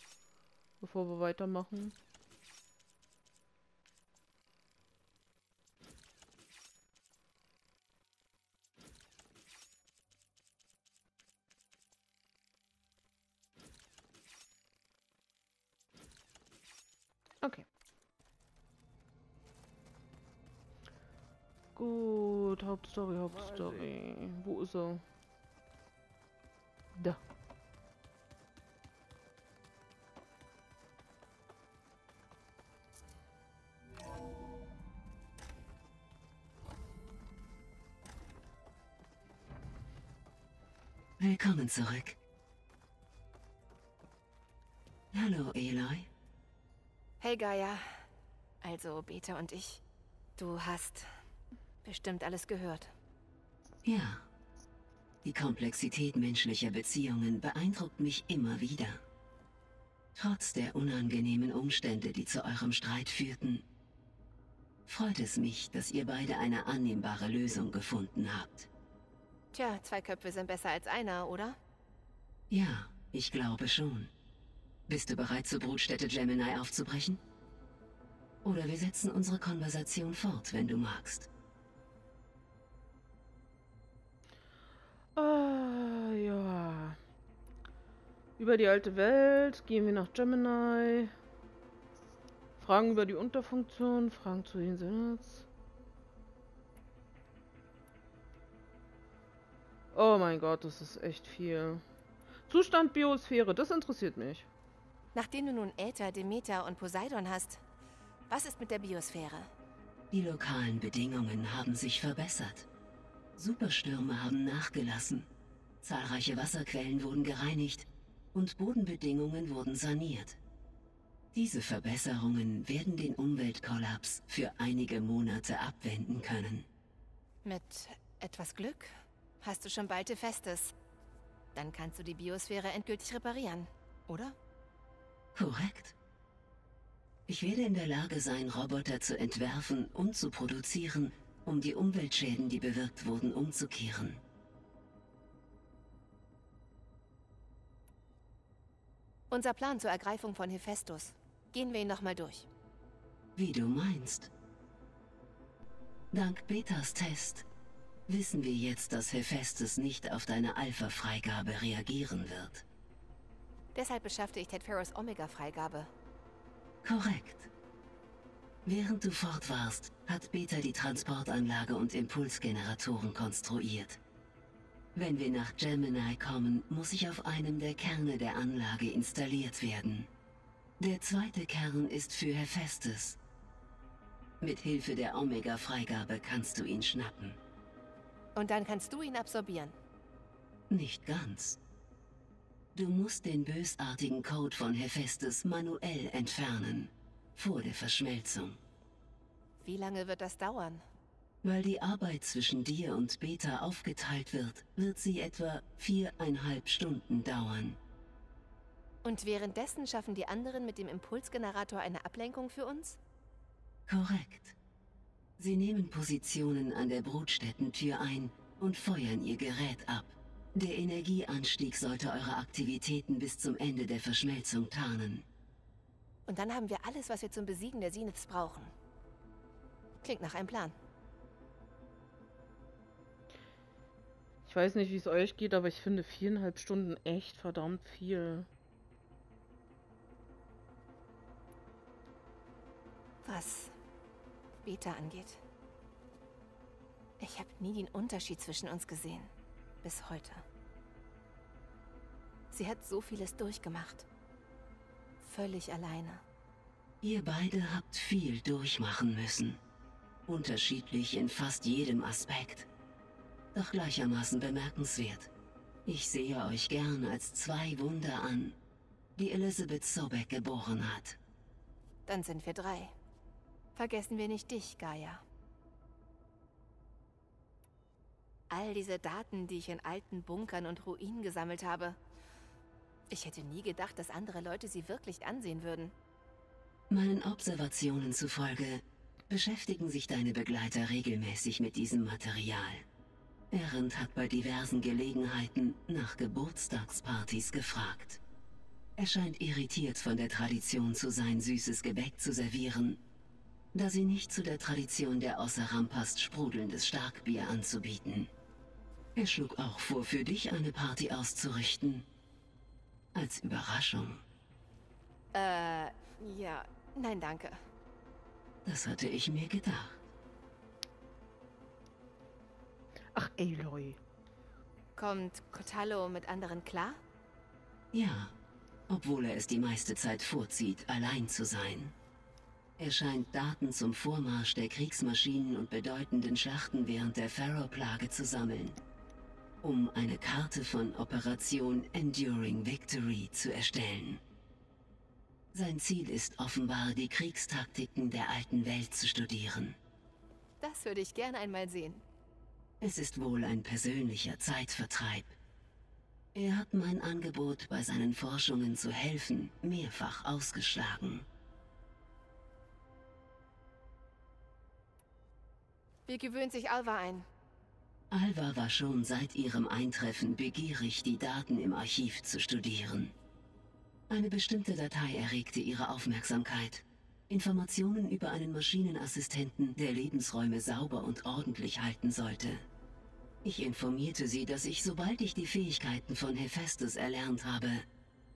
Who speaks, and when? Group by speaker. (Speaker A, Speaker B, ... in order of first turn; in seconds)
Speaker A: 0.8-1.9, 21.8-25.0, 85.2-87.0, 88.4-91.1, 92.6-95.5, 99.9-101.8, 102.5-104.5, 234.4-238.5, 323.1-324.0
Speaker B: 41.2-42.2, 45.1-46.1, 53.8-54.2, 55.2-59.0, 60.1-63.6, 64.9-68.7, 72.5-74.1, 74.9-77.2, 78.4-81.3, 110.1-112.7, 113.3-115.3, 115.8-120.4, 121.3-126.7, 135.3-135.9, 137.3-144.2, 153.3-154.3, 156.1-157.4, 158.1-162.6, 166.8-167.5, 168.6-174.0, 174.9-180.1, 180.8-183.2, 184.4-187.4, 190.7-191.6, 192.7-198.6, 201.4-207.8, 213.9-214.6, 215.4-225.2, 257.0-259.6, 260.2-262.7, 263.5-265.3, 265.9-268.6, 269.1-271.2, 286.9-292.9, 293.5-298.2, 299.0-303.0, 303.7-308.3, 309.1-312.0, 313.1-314.2, 318.6-320.0, 327.9-328.3, 328.9-331.9, 332.8-338.8, 339.6-344.2, 345.5-349.8, 352.8-355.3, 356.3-361.2, 368.1-373.1, 374.1-382.6, 383.4-387.9
Speaker C: 47.2-47.9, 48.6-49.8, 50.4-51.1, 51.8-52.9, 69.5-71.6, 105.1-107.6, 108.3-109.5, 127.4-130.7, 131.5-134.3, 149.3-152.5, 163.7-165.9, 188.3-189.7, 199.6-200.8, 209.0-213.0, 226.3-228.7, 230.0-230.7, 243.2-243.7, 244.6-245.4, 247.2-249.3, 249.8-250.4, 252.5-254.1, 255.2-256.2, 272.1-272.9, 273.8-275.2, 278.5-282.0, 283.1-285.9, 315.3-317.6, 325.0-327.0, 350.6-352.0, 366.1-367.2